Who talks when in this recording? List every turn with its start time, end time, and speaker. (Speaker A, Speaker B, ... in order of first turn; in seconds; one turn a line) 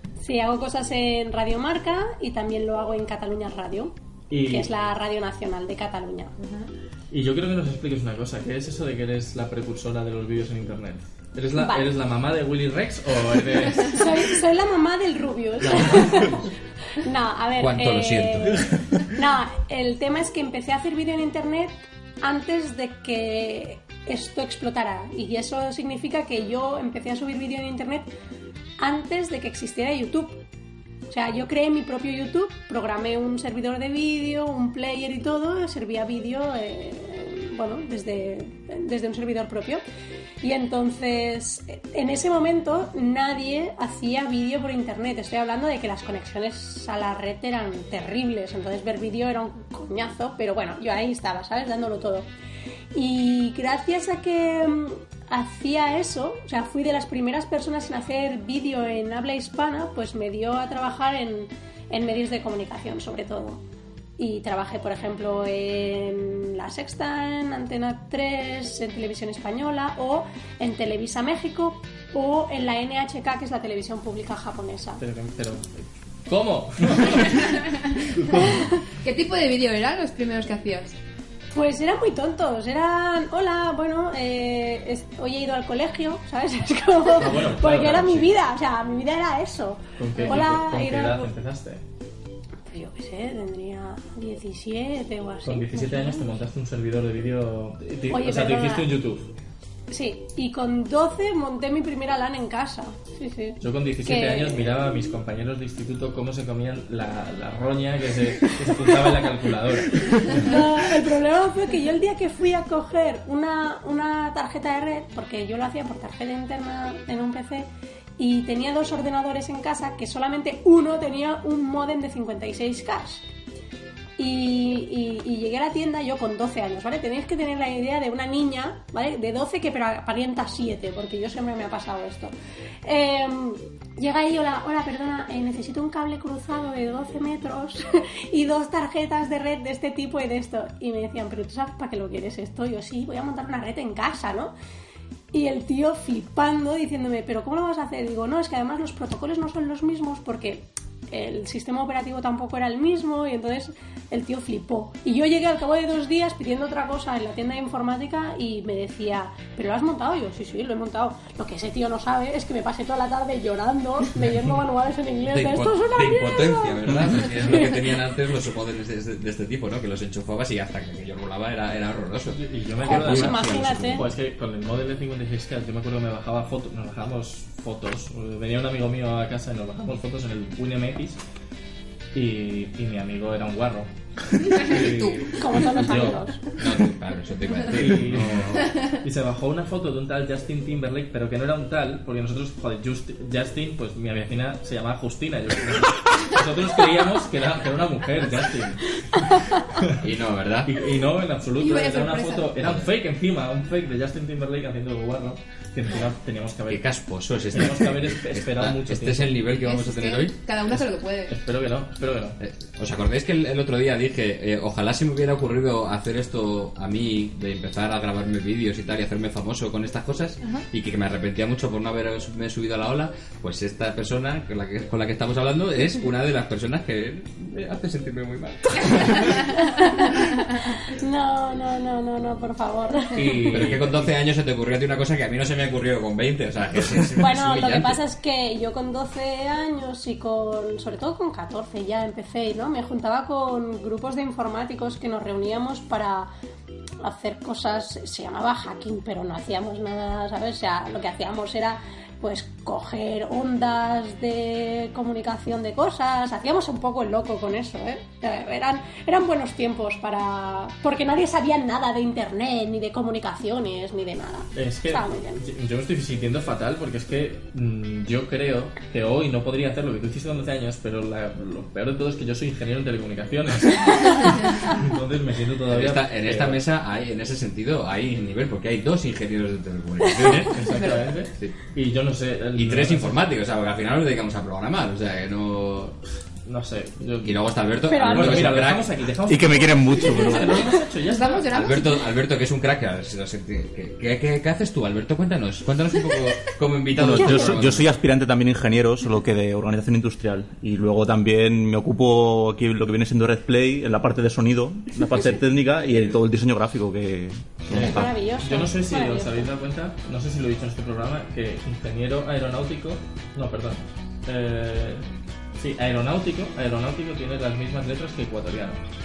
Speaker A: 0.2-3.9
Speaker B: 4.3-4.7
Speaker A: 4.5-6.3
Speaker B: 7.1-14.2
Speaker A: 11.6-11.9
Speaker A: 13.8-16.5
Speaker A: 17.0-28.1
Speaker C: 17.6-18.6
Speaker A: 28.8-30.4
Speaker A: 31.1-39.8
Speaker A: 40.4-52.3
Speaker A: 52.9-63.6
Speaker A: 64.2-75.0
Speaker B: 75.0-77.5
Speaker D: 77.2-77.7
Speaker B: 78.2-78.5
Speaker D: 79.0-81.0
Speaker A: 81.5-91.3
Speaker B: 87.2-88.2
Speaker B: 90.0-91.8
Speaker A: 92.7-96.4
Speaker B: 95.4-99.3
Speaker A: 98.1-98.9
Speaker A: 99.9-105.1
Speaker B: 103.6-110.5
Speaker A: 110.2-123.2
Speaker A: 124.2-132.3
Speaker A: 132.8-144.5
Speaker A: 145.3-167.7
Speaker C: 165.3-174.1
Speaker B: 172.3-181.2
Speaker A: 172.8-174.1
Speaker B: 182.1-186.2
Speaker D: 184.5-185.3
Speaker A: 185.3-186.4
Speaker C: 186.6-188.8
Speaker B: 187.7-199.9
Speaker C: 199.9-200.7
Speaker B: 200.7-206.8
Speaker D: 201.6-202.5
Speaker C: 202.6-202.9
Speaker C: 206.7-210.3
Speaker B: 207.5-209.4
Speaker D: 209.5-211.4
Speaker B: 210.7-212.4
Speaker C: 212.4-229.3
Speaker A: 229.3-233.5
Speaker B: 233.1-234.1
Speaker C: 233.4-238.0
Speaker A: 237.2-246.3
Speaker A: 247.0-265.4
Speaker B: 264.5-276.6
Speaker C: 275.7-280.7
Speaker A: 280.1-280.3
Speaker B: 280.2-283.2
Speaker D: 280.7-281.1
Speaker C: 282.6-285.9
Speaker B: 286.4-291.5
Speaker C: 287.2-288.9
Speaker A: 287.9-288.5
Speaker E: 289.3-290.6
Speaker A: 290.0-290.7
Speaker D: 291.0-292.1
Speaker C: 291.5-297.9
Speaker E: 296.9-308.1
Speaker A: 307.7-309.5
Speaker B: 307.7-315.0
Speaker B: 315.6-318.8